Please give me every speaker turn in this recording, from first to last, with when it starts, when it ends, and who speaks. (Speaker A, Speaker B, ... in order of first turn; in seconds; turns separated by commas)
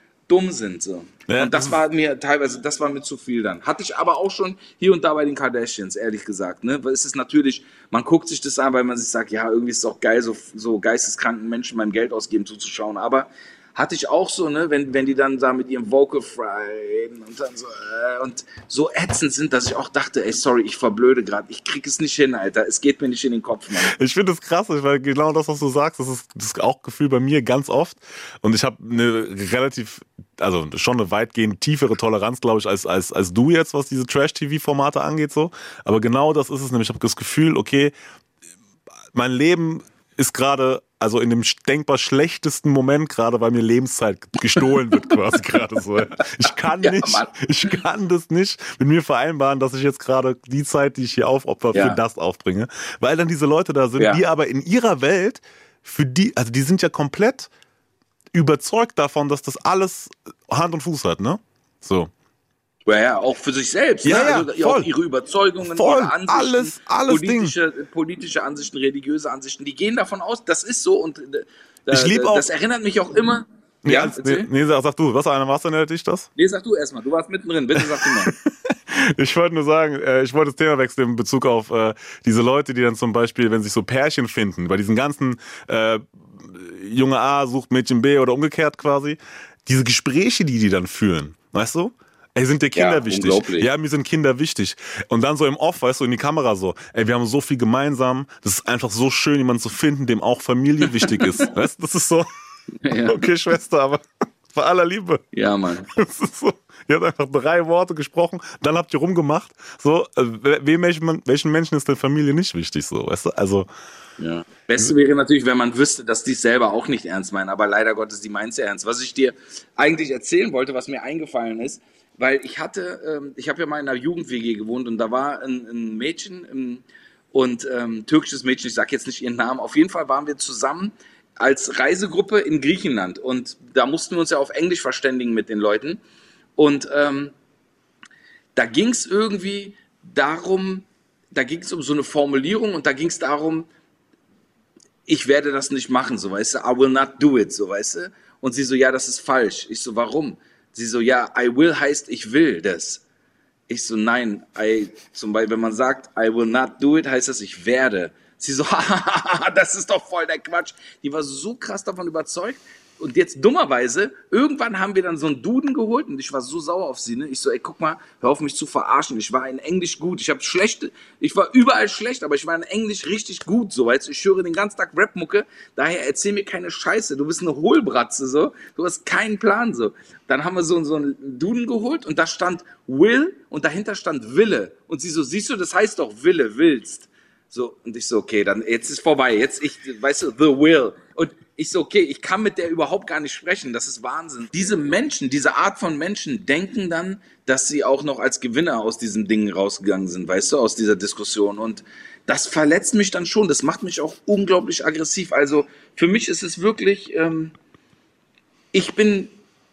Speaker A: 0.3-23.9, Speaker B: 1.3-1.8, Speaker B: 23.8-37.9, Speaker B: 39.1-57.5, Speaker A: 46.8-47.3, Speaker A: 51.7-52.0, Speaker A: 54.0-54.2, Speaker B: 58.3-62.1, Speaker A: 62.9-74.5, Speaker B: 64.0-64.9, Speaker B: 65.6-67.5, Speaker B: 71.9-72.5, Speaker B: 73.8-76.3, Speaker A: 76.3-78.3, Speaker B: 77.8-102.3, Speaker A: 92.8-93.7, Speaker A: 102.8-103.2, Speaker B: 103.0-105.2, Speaker A: 105.3-105.9, Speaker B: 106.0-113.7, Speaker A: 114.2-136.0, Speaker A: 136.6-137.3, Speaker A: 138.6-143.7, Speaker A: 145.1-153.0, Speaker A: 153.7-207.6, Speaker A: 208.7-209.3